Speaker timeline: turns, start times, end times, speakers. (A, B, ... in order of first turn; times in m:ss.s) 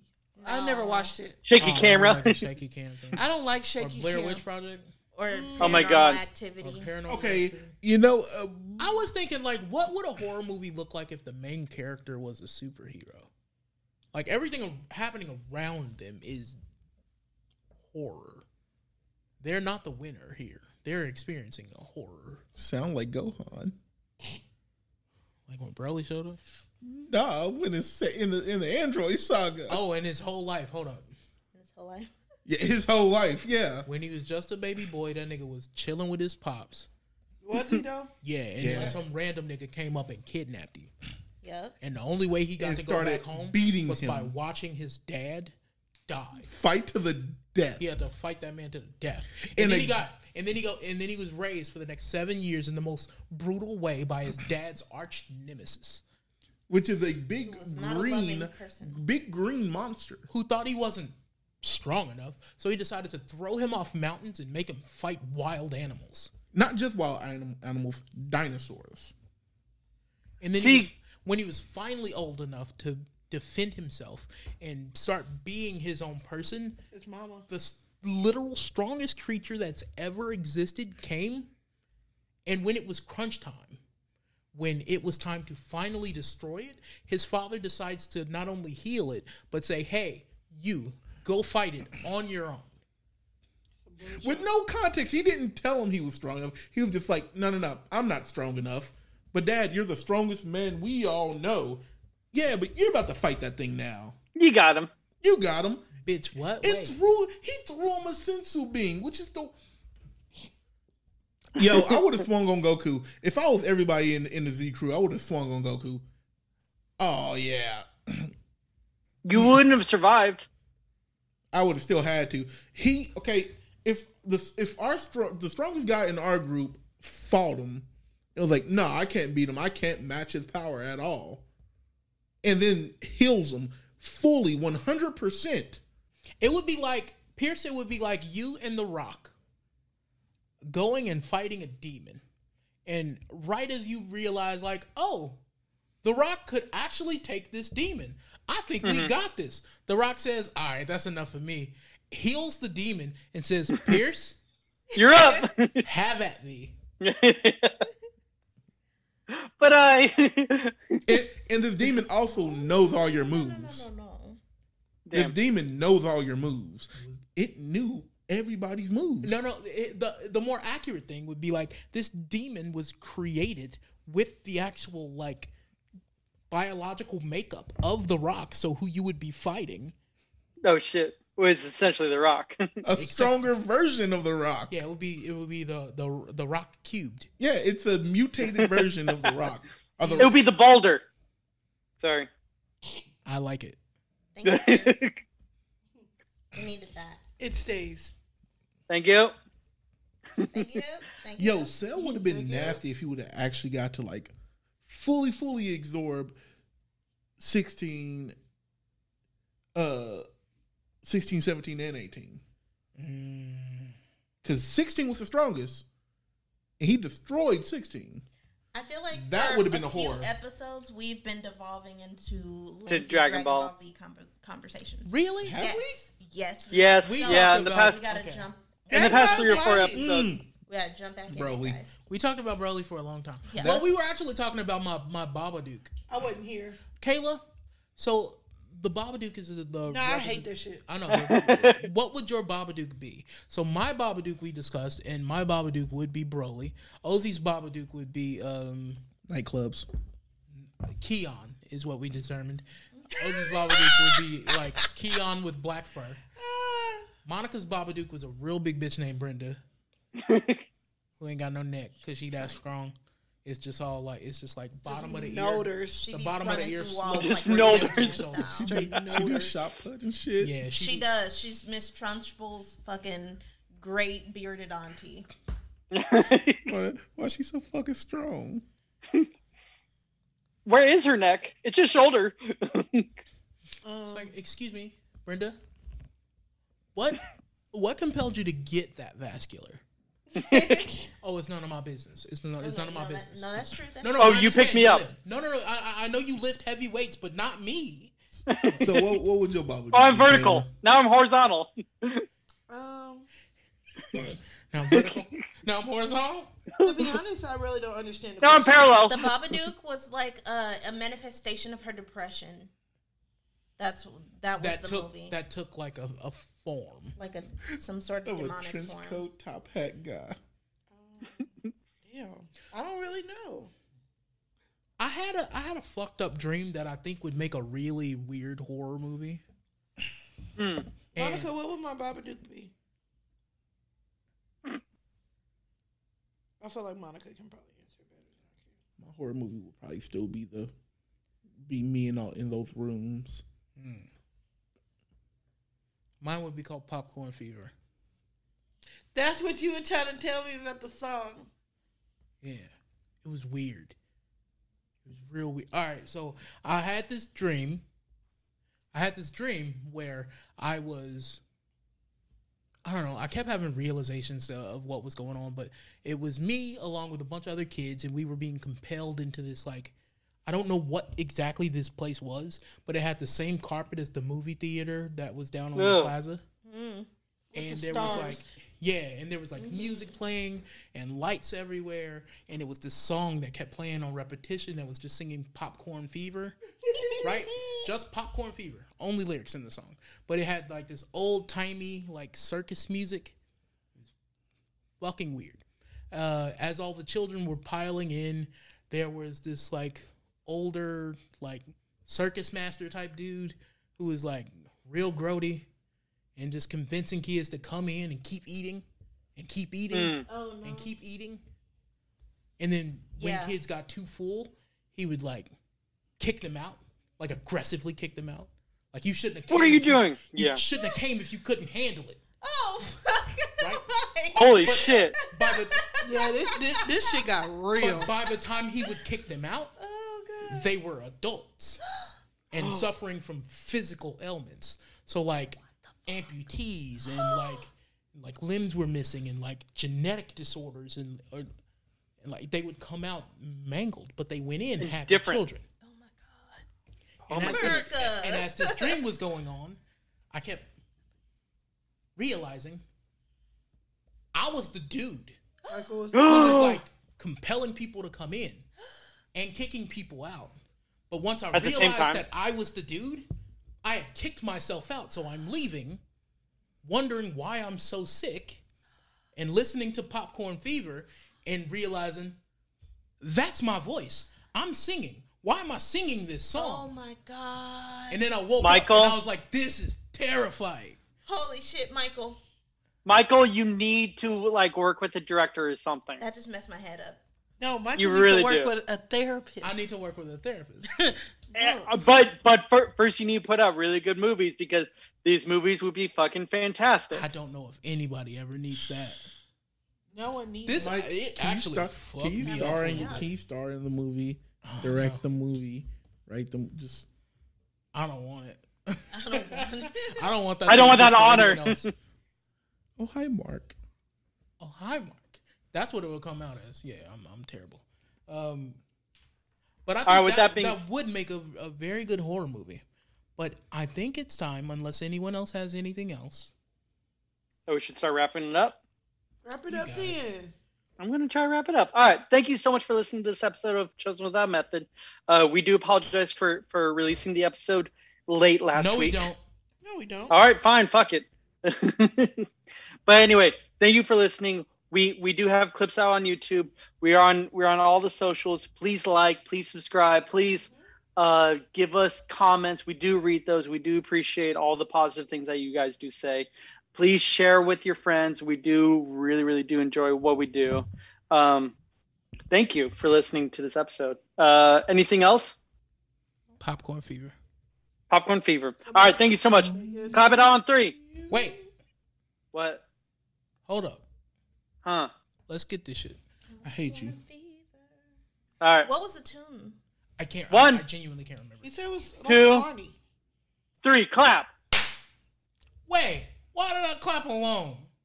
0:00.4-0:01.1 A
0:00.4-0:01.4 B
0:01.5-0:02.4 C
0:01.6-0:03.2 D
0:03.2-0:04.4 B
0:03.8-0:04.9 D
0:05.2-0:06.9 A
0:05.3-0:05.9 B
0:05.6-0:06.2 C
0:06.6-0:07.8 D
0:07.1-0:09.0 E
0:08.8-0:13.3 D
0:14.1-0:16.6 D
0:17.9-0:18.5 D
0:19.4-0:22.4 D
0:22.6-0:23.8 E
0:25.5-0:26.4 D
0:26.8-0:29.8 E
0:29.7-0:31.1 D
0:31.5-0:32.2 A
0:32.5-0:33.9 E
0:33.9-0:36.9 D
0:37.4-0:38.1 B
0:38.2-0:40.9 D
0:38.6-0:39.0 E
0:41.4-0:41.8 A
0:41.8-0:45.5 D
0:42.6-0:44.3 E
0:46.1-0:46.5 D
0:46.4-0:47.8 E
0:47.8-0:56.0 D
0:49.6-0:50.0 E
0:56.7-1:00.3 E
0:57.4-0:59.0 A
1:00.3-1:06.3 D
1:06.5-1:09.1 E
1:10.4-1:16.8 D
1:10.6-1:10.9 C
1:16.9-1:17.5 B
1:17.5-1:21.5 D
1:22.5-1:23.8 D
1:24.5-1:32.8 D
1:33.8-1:34.5 B
1:34.1-1:44.2 E
1:44.4-1:44.9 C
1:45.2-1:45.9 E
1:46.0-1:47.0 D
1:46.6-1:49.6 E
1:51.6-1:56.0 E
1:57.0-1:58.3 E
1:59.2-2:00.5 C
2:01.5-2:11.4 E
2:12.4-2:15.8 E
2:16.4-2:19.4 D
2:20.7-2:22.2 D
2:22.9-2:25.4 D
2:26.0-2:34.4 D
2:28.8-2:29.1 C
2:35.0-2:35.8 C
2:35.8-2:36.8 D
2:37.0-2:37.8 C
2:39.3-2:41.0 C
2:41.0-2:43.9 E
2:42.3-2:44.4 A
2:45.1-2:45.4 C
2:45.1-2:49.4 E
2:47.0-2:47.2 D
2:49.2-2:55.5 D
2:56.5-2:59.9 D
3:00.6-3:02.8 C
3:02.8-3:04.8 E
3:03.0-3:03.5 D
3:04.7-3:07.3 D
3:07.4-3:10.4 E
3:08.6-3:08.9 C
3:10.0-3:10.4 D
3:10.2-3:11.0 C
3:12.0-3:12.3 C
3:13.3-3:13.8 D
3:14.4-3:15.0 A
3:14.4-3:15.2 C
3:16.5-3:17.2 A
3:17.4-3:18.1 B
3:18.9-3:19.3 C
3:20.4-3:20.8 C
3:20.5-3:21.8 A
3:21.4-3:24.3 E
3:22.0-3:22.8 B
3:24.8-3:26.4 E
3:27.4-3:28.4 E
3:29.8-3:30.3 E
3:31.0-3:32.4 E
3:33.0-3:34.0 D
3:34.4-3:35.9 E
3:36.8-3:38.3 E
3:38.7-3:49.8 A
3:39.1-3:40.3 E
3:42.9-3:43.7 C
3:45.1-3:45.6 D
3:45.4-3:46.0 E
3:46.7-3:48.0 C
3:47.0-3:48.5 D
3:48.9-3:50.0 B
3:48.9-3:50.3 C
3:49.8-3:50.5 E
3:50.7-3:51.9 A
3:51.3-3:51.8 E
3:52.1-3:55.9 D
3:53.5-3:53.7 A
3:53.6-3:53.9 E
3:56.1-3:56.8 B
3:57.0-3:57.4 D
3:58.0-4:09.0 D
3:59.9-4:00.9 B
4:01.1-4:01.8 C
4:09.3-4:09.9 E
4:10.6-4:16.2 D
4:13.0-4:13.3 A
4:16.4-4:17.1 B
4:17.2-4:19.6 D
4:20.2-4:20.7 C
4:21.2-4:29.0 D
4:22.3-4:22.6 A
4:24.9-4:26.1 B
4:26.0-4:28.8 A
4:27.1-4:28.3 C
4:28.5-4:29.6 B
4:28.9-4:30.6 E
4:30.4-4:31.1 D
4:30.8-4:35.3 A
4:35.9-4:36.7 C
4:36.7-4:38.7 E
4:40.7-4:43.1 C
4:43.8-4:44.3 B
4:44.1-4:45.6 D
4:47.0-4:49.8 D
4:50.3-4:51.0 A
4:50.4-4:50.8 C
4:51.2-4:58.1 D
4:52.6-4:54.4 A
4:54.2-4:55.0 C
4:58.5-4:59.2 C
4:58.8-5:00.7 E
4:59.9-5:02.3 C
5:02.7-5:03.3 B
5:04.2-5:06.5 D
5:06.8-5:09.1 B
5:06.8-5:07.1 C
5:08.4-5:09.2 C
5:09.1-5:12.7 A
5:13.8-5:15.4 A
5:14.6-5:17.2 D
5:17.2-5:19.2 A
5:18.2-5:20.4 E
5:20.9-5:21.4 B
5:22.0-5:23.7 B
5:25.0-5:29.4 D
5:30.6-5:30.9 C
5:31.1-5:31.5 D
5:31.2-5:32.7 B
5:36.6-5:38.8 B
5:39.0-5:40.7 E
5:41.6-5:43.4 E
5:43.8-5:44.1 D
5:46.2-5:47.7 D
5:49.1-5:51.5 B
5:52.4-5:54.0 D
5:55.0-5:57.8 D
5:58.9-6:01.4 D
6:02.8-6:09.9 D
6:10.5-6:16.4 D
6:15.8-6:16.1 C
6:16.6-6:17.1 A
6:17.5-6:18.5 B
6:17.5-6:26.6 D
6:18.0-6:18.3 A
6:19.6-6:20.1 A
6:26.9-6:27.3 B
6:27.2-6:33.4 D
6:35.0-6:45.7 D
6:46.4-6:48.8 D
6:49.4-6:51.4 D
6:49.9-6:50.3 C
6:50.3-6:51.0 A
6:52.6-6:55.6 D
6:53.2-6:53.5 A
6:56.2-7:02.2 D
6:59.5-7:00.6 C
7:02.4-7:07.3 A
7:03.6-7:03.8 D
7:04.3-7:05.2 C
7:04.6-7:05.8 D
7:06.0-7:08.1 B
7:07.8-7:09.7 D
7:09.8-7:10.7 A
7:10.5-7:11.8 D
7:12.5-7:21.5 D
7:12.5-7:12.9 C
7:22.2-7:25.6 D
7:24.8-7:25.4 C
7:25.8-7:26.6 A
7:27.3-7:28.0 C
7:27.3-7:29.8 D
7:27.4-7:29.0 A
7:30.3-7:30.7 D
7:32.2-7:32.8 D
7:34.3-7:35.4 D
7:35.7-7:36.8 B
7:36.1-7:36.8 C
7:36.2-7:38.7 D
7:39.4-7:40.6 D
7:41.1-7:43.3 D
7:41.5-7:42.2 C
7:43.8-7:46.0 D
7:46.8-7:48.6 D
7:49.4-7:52.4 D
7:53.2-7:56.9 D
7:56.6-7:58.2 A
7:58.1-8:01.0 D
7:58.6-7:59.2 C
8:01.3-8:02.4 A
8:03.0-8:06.2 C
8:06.2-8:07.2 A
8:07.6-8:09.9 B
8:08.0-8:08.7 C
8:09.6-8:11.1 D
8:11.5-8:11.9 B
8:11.6-8:17.2 C
8:17.1-8:19.2 D
8:20.1-8:21.0 B
8:20.6-8:23.3 D
8:20.8-8:27.1 E
8:22.4-8:23.3 A
8:24.6-8:25.2 D
8:27.9-8:31.9 D
8:29.1-8:30.3 A
8:30.7-8:31.9 C
8:33.0-8:33.8 E
8:34.6-8:38.8 D
8:39.9-8:42.8 D
8:40.1-8:40.8 C
8:43.4-8:46.5 D
8:47.7-8:48.8 C
8:49.4-8:50.5 B
8:49.7-8:50.2 D
8:51.0-8:59.3 C
8:58.7-8:59.4 D
8:59.8-9:00.4 B
9:00.3-9:02.5 C
9:03.1-9:21.8 C
9:22.5-9:25.6 C
9:26.6-9:27.4 D
9:28.1-9:30.9 C
9:28.9-9:30.5 B
9:29.6-9:31.6 E
9:31.3-9:31.6 D
9:32.5-9:32.8 C
9:33.7-9:34.0 D
9:34.8-9:35.1 C
9:35.5-9:36.2 D
9:36.5-9:37.9 A
9:36.6-9:37.2 E
9:38.6-9:38.9 C
9:38.8-9:39.8 A
9:40.2-9:41.7 D
9:40.5-9:40.8 C
9:41.6-9:43.0 B
9:42.2-9:42.7 C
9:43.8-9:44.5 C
9:45.9-9:47.9 D